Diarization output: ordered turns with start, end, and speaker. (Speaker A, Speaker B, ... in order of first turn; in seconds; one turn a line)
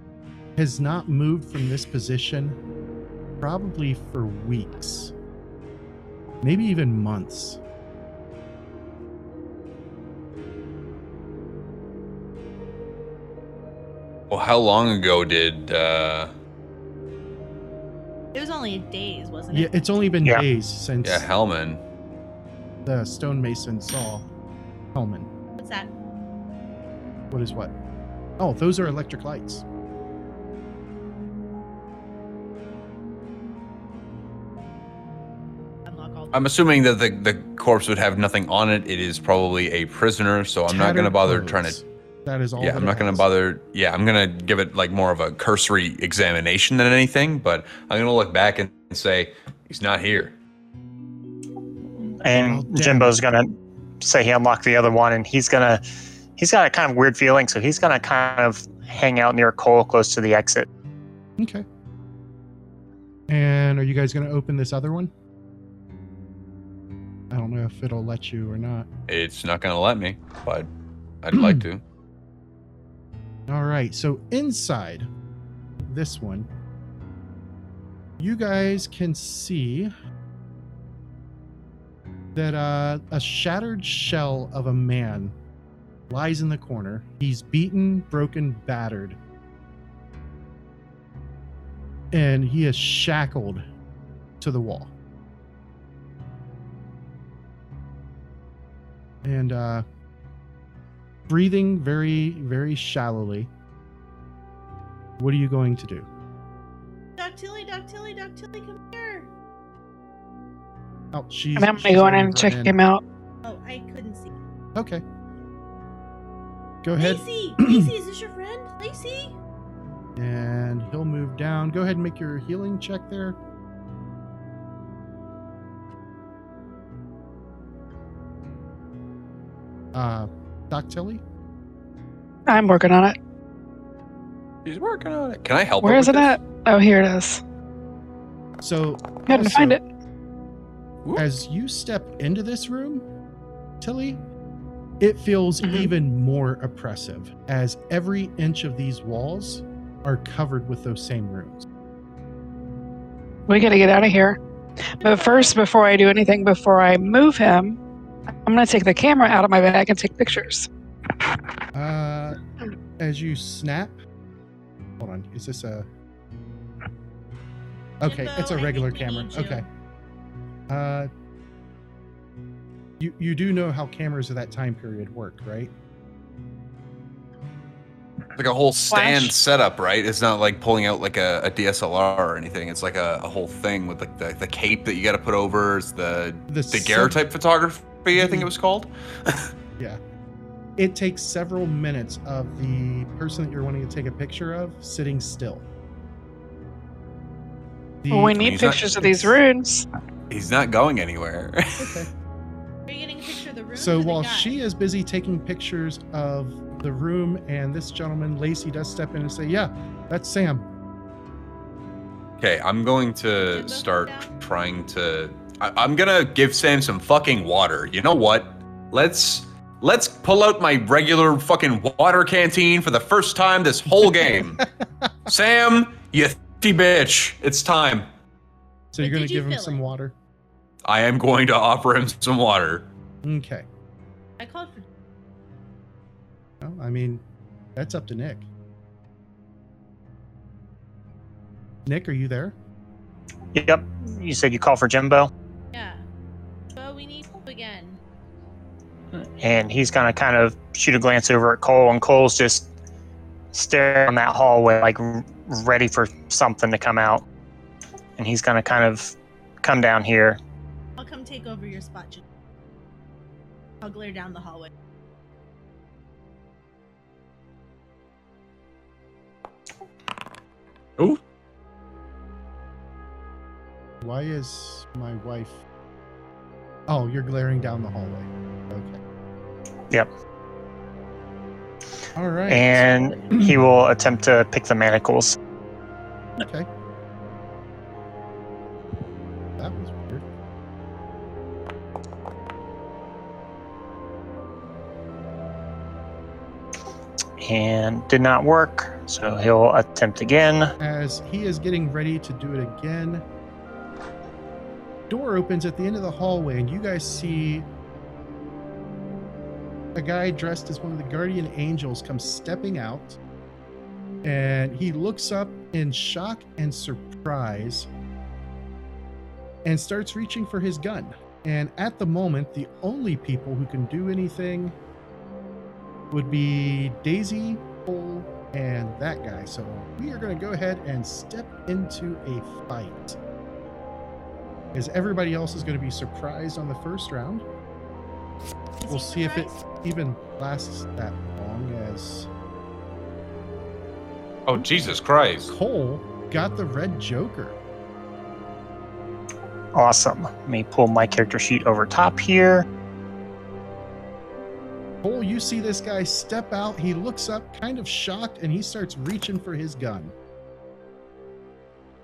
Speaker A: 0.6-2.6
Speaker A: 3.4-5.1
Speaker A: 6.4-7.6
Speaker B: 14.3-16.3
Speaker C: 18.3-20.1
Speaker A: 19.5-21.3
Speaker B: 21.0-21.8
Speaker A: 22.8-24.3
Speaker A: 24.9-25.3
Speaker C: 25.6-25.9
Speaker A: 27.3-27.7
Speaker A: 28.4-29.6
Speaker C: 35.9-36.7
Speaker B: 36.3-41.7
Speaker A: 40.7-43.3
Speaker B: 42.6-50.3
Speaker D: 52.2-55.8
Speaker A: 52.3-53.2
Speaker D: 56.4-60.7
Speaker A: 61.4-61.6
Speaker A: 63.3-65.1
Speaker A: 67.3-68.9
Speaker B: 69.1-70.7
Speaker B: 71.2-71.8
Speaker A: 71.3-71.6
Speaker A: 73.5-75.1
Speaker A: 75.8-76.5
Speaker A: 78.2-79.9
Speaker A: 82.3-85.3
Speaker A: 86.1-89.2
Speaker A: 92.1-93.6
Speaker A: 94.4-94.9
Speaker A: 99.2-99.8
Speaker A: 101.3-103.5
Speaker A: 105.2-106.1
Speaker C: 107.2-109.3
Speaker A: 111.1-112.8
Speaker E: 111.5-113.0
Speaker C: 113.4-114.3
Speaker A: 114.7-115.0
Speaker A: 116.8-117.9
Speaker C: 117.0-119.3
Speaker A: 120.2-123.4
Speaker A: 129.9-131.2
Speaker E: 132.5-133.2
Speaker B: 134.6-136.4
Speaker E: 135.8-137.4
Speaker A: 138.6-139.8
Speaker E: 139.3-139.8
Speaker A: 141.2-143.1
Speaker A: 143.8-144.2
Speaker A: 145.0-151.7
Speaker E: 153.5-154.4
Speaker E: 155.0-157.8
Speaker E: 158.4-160.7
Speaker A: 161.7-162.4
Speaker A: 163.0-164.0
Speaker A: 165.0-165.9
Speaker A: 168.0-169.7
Speaker C: 168.0-169.7
Speaker A: 170.7-171.1
Speaker A: 173.0-175.7
Speaker B: 178.4-189.5
Speaker E: 178.9-179.4
Speaker A: 186.5-187.2
Speaker A: 188.1-188.5
Speaker A: 190.8-195.6
Speaker A: 198.0-198.5
Speaker E: 198.1-199.9
Speaker B: 198.4-199.3
Speaker B: 200.3-202.0
Speaker A: 201.8-202.1
Speaker C: 202.9-204.6
Speaker A: 203.7-210.7
Speaker B: 212.4-224.6
Speaker C: 213.3-214.3
Speaker A: 224.0-225.1
Speaker B: 225.3-228.1
Speaker A: 228.9-230.2
Speaker C: 229.0-229.8
Speaker B: 230.8-232.9
Speaker A: 233.2-233.7
Speaker C: 234.4-234.8
Speaker A: 236.6-237.2
Speaker A: 237.8-238.5
Speaker A: 241.8-242.6
Speaker D: 243.5-245.3
Speaker C: 245.7-246.0
Speaker C: 246.7-248.0
Speaker D: 249.4-252.7
Speaker D: 253.5-257.2
Speaker D: 258.2-260.4
Speaker C: 261.0-262.2
Speaker C: 263.8-264.7
Speaker A: 274.0-275.6
Speaker A: 276.9-279.0
Speaker A: 282.1-283.6
Speaker D: 282.5-285.4
Speaker A: 286.4-286.7
Speaker A: 289.6-290.2
Speaker D: 297.4-300.7
Speaker A: 300.8-303.2
Speaker A: 305.1-307.7
Speaker A: 309.9-313.2
Speaker A: 314.2-317.9
Speaker A: 319.6-324.8
Speaker A: 326.1-333.2
Speaker A: 334.7-337.4
Speaker C: 338.8-339.6
Speaker A: 338.9-342.3
Speaker B: 344.5-345.5
Speaker A: 345.5-347.6
Speaker D: 349.7-352.7
Speaker A: 355.0-360.1